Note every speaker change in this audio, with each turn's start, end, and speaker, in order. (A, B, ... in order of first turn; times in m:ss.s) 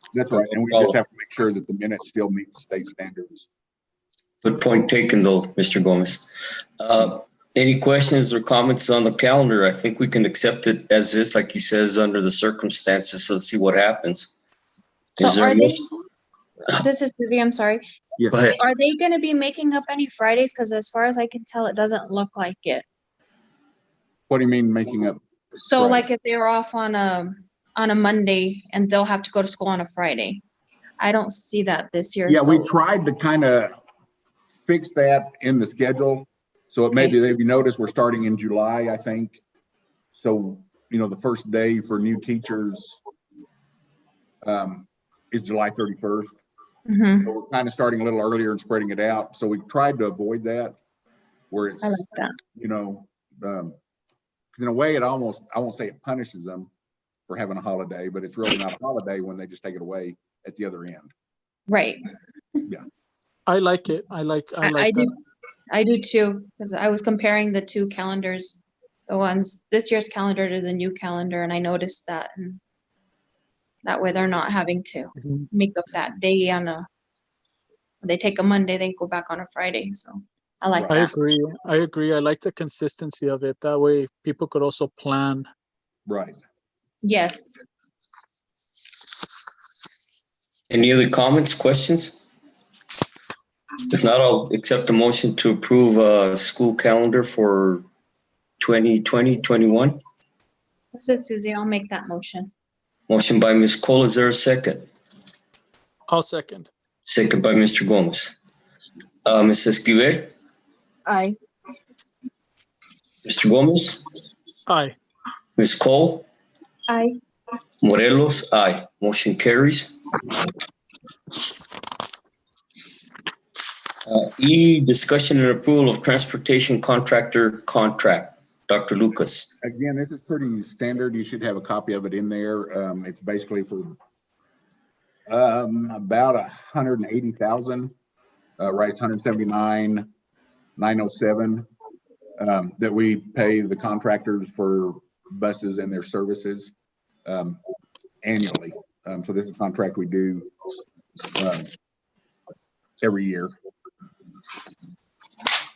0:00.1-0:03.5 A
0:00.5-0:01.0 B
0:04.4-0:06.2 B
0:06.8-0:14.3 B
0:15.2-0:15.8 B
0:15.2-0:15.6 C
0:16.7-0:17.8 C
0:18.3-0:18.6 B
0:18.6-0:22.8 C
0:24.3-0:26.1 A
0:25.7-0:30.4 C
0:31.0-0:32.7 C
0:32.3-0:33.8 A
0:34.7-0:39.4 A
0:40.1-0:43.0 A
0:44.4-0:46.3 A
0:46.9-0:47.3 C
0:47.2-0:50.8 A
0:51.5-0:52.0 A
0:51.8-0:52.3 C
0:52.6-0:53.8 A
0:54.5-0:56.7 A
0:57.3-1:01.1 A
1:01.7-1:02.0 C
1:03.5-1:05.1 D
1:04.6-1:05.1 C
1:05.7-1:12.6 C
1:13.8-1:16.8 C
1:15.2-1:15.5 D
1:18.0-1:21.1 C
1:20.7-1:21.0 A
1:20.9-1:25.5 D
1:26.1-1:26.4 A
1:27.0-1:27.6 C
1:30.7-1:32.2 B
1:33.9-1:37.8 B
1:38.6-1:40.0 B
1:40.9-1:42.5 C
1:43.1-1:44.9 B
1:46.1-1:46.7 D
1:47.1-1:48.4 B
1:49.3-1:50.3 B
1:53.2-1:54.0 B
1:54.7-1:55.0 D
1:55.6-1:56.3 B
1:56.9-1:57.2 C
1:57.8-2:00.0 B
2:04.1-2:09.5 B
2:09.6-2:14.0 A
2:15.3-2:17.9 A
2:18.6-2:20.1 A
2:20.8-2:21.7 A
2:22.4-2:26.7 A
2:27.3-2:27.6 A
2:28.2-2:30.5 A
2:31.4-2:31.7 A
2:33.0-2:33.5 A